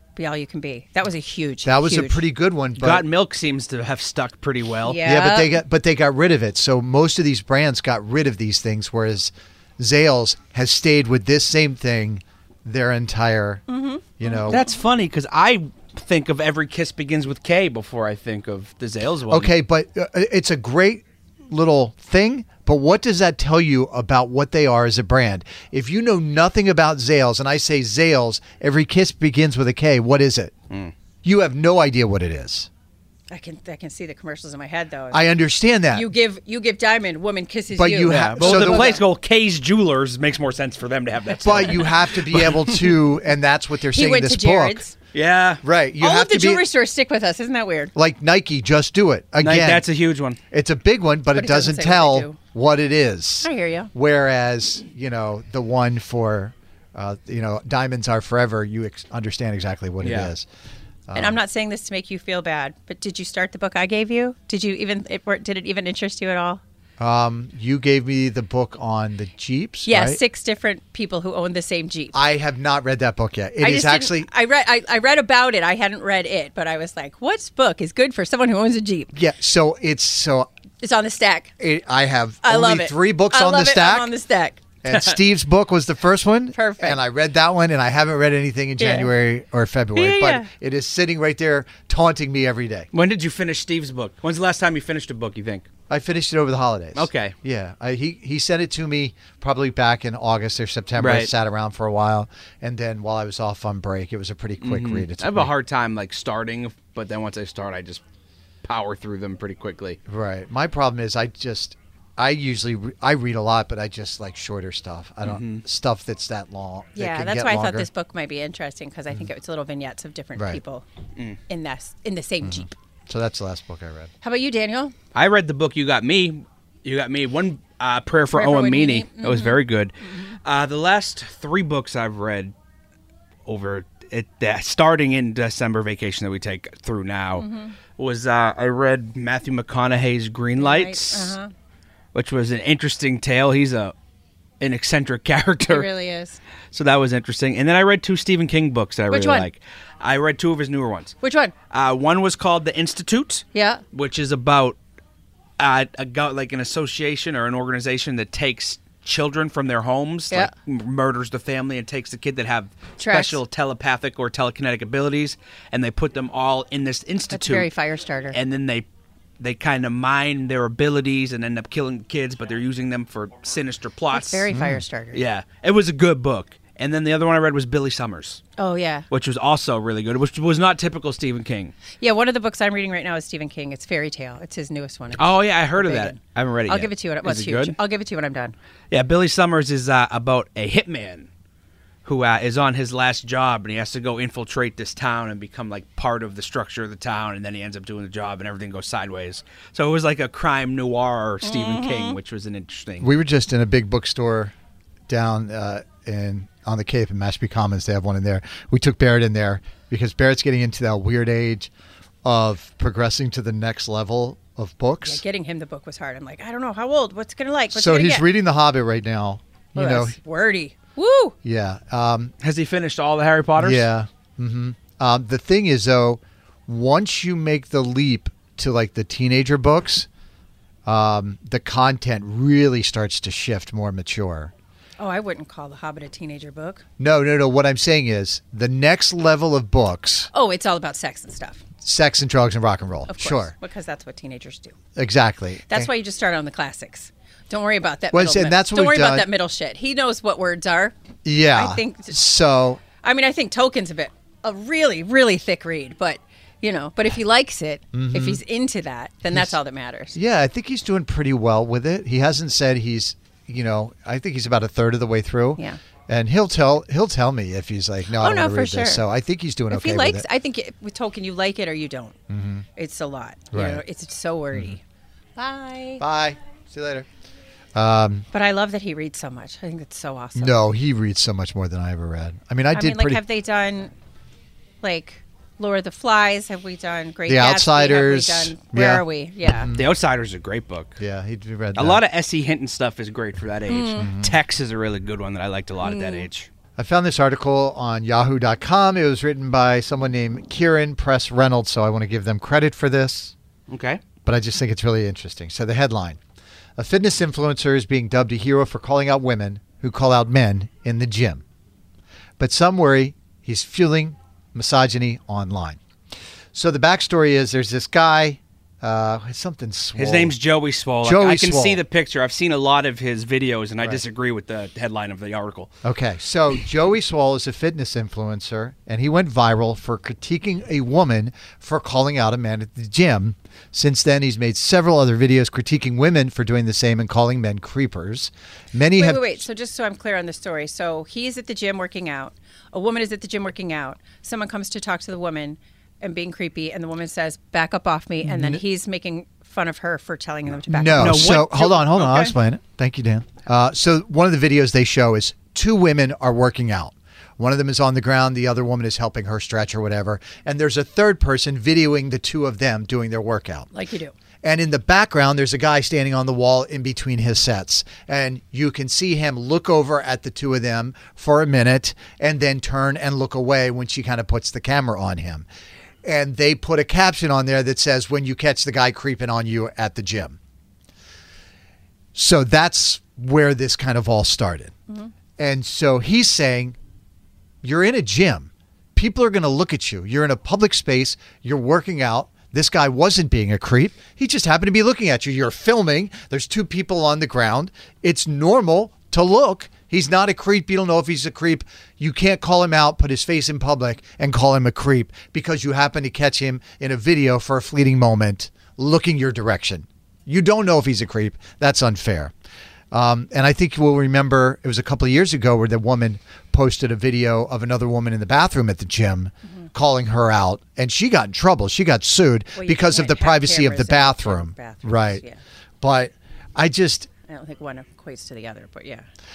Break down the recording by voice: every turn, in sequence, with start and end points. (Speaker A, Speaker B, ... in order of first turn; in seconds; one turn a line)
Speaker A: 0.2-2.2
Speaker B: 1.6-3.1
Speaker C: 2.8-5.0
Speaker A: 4.8-5.6
Speaker B: 5.0-13.6
Speaker A: 13.7-14.7
Speaker B: 14.2-14.6
Speaker C: 14.5-19.5
Speaker B: 19.3-30.5
Speaker B: 31.2-32.7
Speaker A: 33.3-35.3
Speaker B: 35.1-36.1
Speaker A: 35.9-39.0
Speaker B: 37.7-39.0
Speaker C: 38.1-43.0
Speaker B: 41.4-44.9
Speaker A: 43.9-45.0
Speaker C: 45.1-45.6
Speaker B: 45.6-46.7
Speaker A: 46.0-47.9
Speaker B: 48.0-49.9
Speaker C: 49.4-50.4
Speaker B: 50.5-60.5
Speaker A: 51.3-52.4
Speaker A: 53.4-53.9
Speaker C: 60.0-60.3
Speaker B: 61.1-61.4
Speaker A: 61.1-66.6
Speaker B: 67.0-70.2
Speaker A: 69.9-72.2
Speaker B: 72.1-74.3
Speaker A: 73.6-79.1
Speaker B: 79.1-80.5
Speaker A: 80.8-81.5
Speaker B: 81.6-84.1
Speaker A: 82.4-84.6
Speaker B: 84.8-92.9
Speaker C: 84.9-85.1
Speaker A: 86.5-87.0
Speaker A: 88.8-89.1
Speaker A: 90.0-90.5
Speaker C: 92.9-95.7
Speaker B: 95.9-105.5
Speaker C: 97.0-97.3
Speaker C: 101.0-101.3
Speaker C: 104.6-108.0
Speaker C: 108.7-110.0
Speaker B: 110.1-117.9
Speaker C: 115.2-115.6
Speaker A: 117.0-120.8
Speaker B: 120.4-120.6
Speaker A: 121.5-122.7
Speaker B: 122.4-124.1
Speaker A: 124.2-124.9
Speaker C: 125.1-132.5
Speaker A: 128.3-130.4
Speaker C: 133.5-137.5
Speaker A: 137.4-137.8
Speaker C: 138.0-141.3
Speaker A: 140.6-141.5
Speaker C: 142.1-143.9
Speaker C: 144.6-145.9
Speaker A: 145.7-146.4
Speaker C: 146.7-151.2
Speaker A: 149.1-149.5
Speaker A: 151.2-151.5
Speaker C: 151.7-154.8
Speaker A: 153.5-153.8
Speaker C: 155.6-167.7
Speaker A: 163.0-163.4
Speaker A: 167.3-168.4
Speaker C: 168.3-168.9
Speaker C: 169.4-174.5
Speaker A: 174.1-175.2
Speaker B: 174.5-174.8
Speaker C: 175.1-178.4
Speaker A: 178.6-179.1
Speaker C: 179.1-181.7
Speaker A: 182.0-188.6
Speaker C: 185.2-187.8
Speaker C: 188.9-191.3
Speaker C: 192.1-203.1
Speaker A: 201.4-202.2
Speaker B: 203.0-204.5
Speaker B: 205.1-211.7
Speaker B: 212.2-215.2
Speaker A: 215.0-218.3
Speaker B: 217.7-220.2
Speaker A: 219.8-221.3
Speaker B: 221.4-222.3
Speaker C: 222.4-223.8
Speaker B: 223.6-230.1
Speaker B: 230.9-234.5
Speaker A: 235.0-236.8
Speaker B: 237.0-240.3
Speaker A: 240.3-241.6
Speaker B: 241.8-243.5
Speaker A: 243.1-244.8
Speaker B: 245.0-245.9
Speaker A: 245.7-250.9
Speaker B: 248.1-249.3
Speaker B: 251.2-252.8
Speaker A: 251.5-252.2
Speaker A: 253.0-260.2
Speaker B: 257.9-258.4
Speaker B: 260.1-270.3
Speaker A: 268.2-269.0
Speaker A: 269.7-272.2
Speaker B: 272.3-272.7
Speaker A: 272.8-274.8
Speaker B: 273.5-273.8
Speaker B: 274.5-274.8
Speaker A: 275.4-276.0
Speaker B: 276.0-277.1
Speaker B: 277.8-278.3
Speaker A: 278.3-280.6
Speaker B: 280.4-283.2
Speaker A: 282.7-283.9
Speaker A: 284.8-289.7
Speaker B: 287.3-289.9
Speaker C: 289.7-291.0
Speaker B: 291.0-292.0
Speaker C: 291.8-296.5
Speaker A: 293.7-294.1
Speaker B: 294.0-294.4
Speaker A: 295.8-296.3
Speaker B: 296.8-303.4
Speaker C: 303.7-304.0
Speaker B: 304.2-306.2
Speaker B: 306.8-311.4
Speaker B: 312.4-315.8
Speaker B: 316.5-320.4
Speaker C: 320.0-325.7
Speaker B: 321.0-321.8
Speaker B: 325.8-339.4
Speaker A: 338.9-351.4
Speaker B: 348.2-348.6
Speaker B: 350.7-363.7
Speaker C: 351.0-352.3
Speaker A: 363.7-364.1
Speaker B: 364.4-375.5
Speaker B: 376.0-380.4
Speaker B: 382.1-384.7
Speaker B: 385.4-386.8
Speaker B: 387.6-412.3
Speaker B: 412.9-425.2
Speaker A: 422.6-425.4
Speaker B: 425.8-427.1
Speaker A: 427.3-429.1